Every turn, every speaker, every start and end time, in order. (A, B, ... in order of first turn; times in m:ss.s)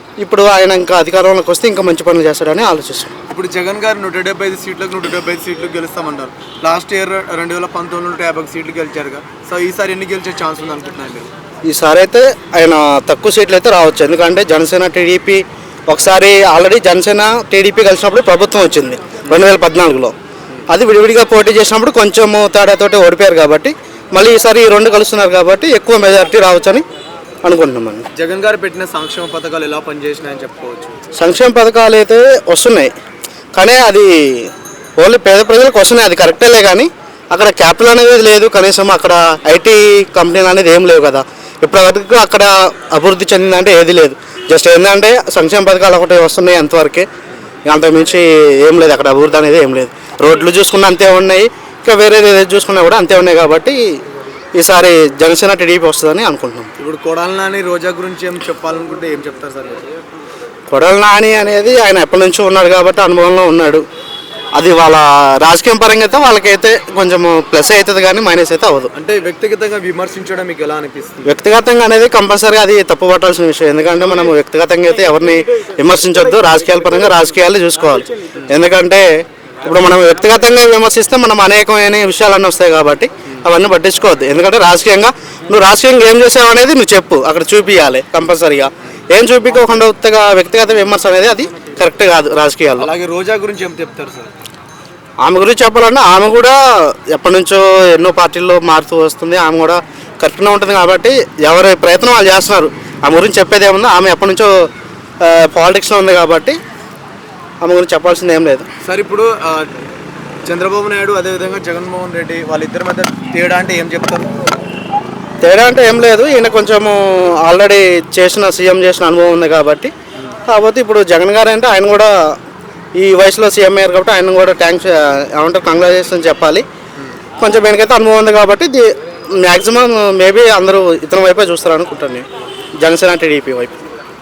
0:00.2-0:03.1 A
0:03.3-0:11.3 B
0:11.6-0:20.1 A
0:20.7-0:26.8 A
0:27.4-0:28.0 A
0:28.1-0:31.0 B
0:31.1-0:32.9 A
0:33.5-0:47.1 A
0:47.6-0:53.8 A
0:54.5-0:56.7 A
0:56.8-0:59.8 B
1:00.7-1:03.8 A
1:04.5-1:08.9 A
1:08.9-1:11.4 B
1:11.2-1:19.0 A
1:19.6-1:32.9 A
1:32.8-1:34.3 B
1:35.2-1:44.5 A
1:45.2-1:46.6 A
1:47.6-1:48.7 A
1:48.8-1:49.7 B
1:50.4-1:54.3 B
1:55.4-1:59.9 A
2:00.5-2:02.3 A
2:02.9-2:06.6 A
2:07.4-2:12.2 A
2:12.8-2:13.8 A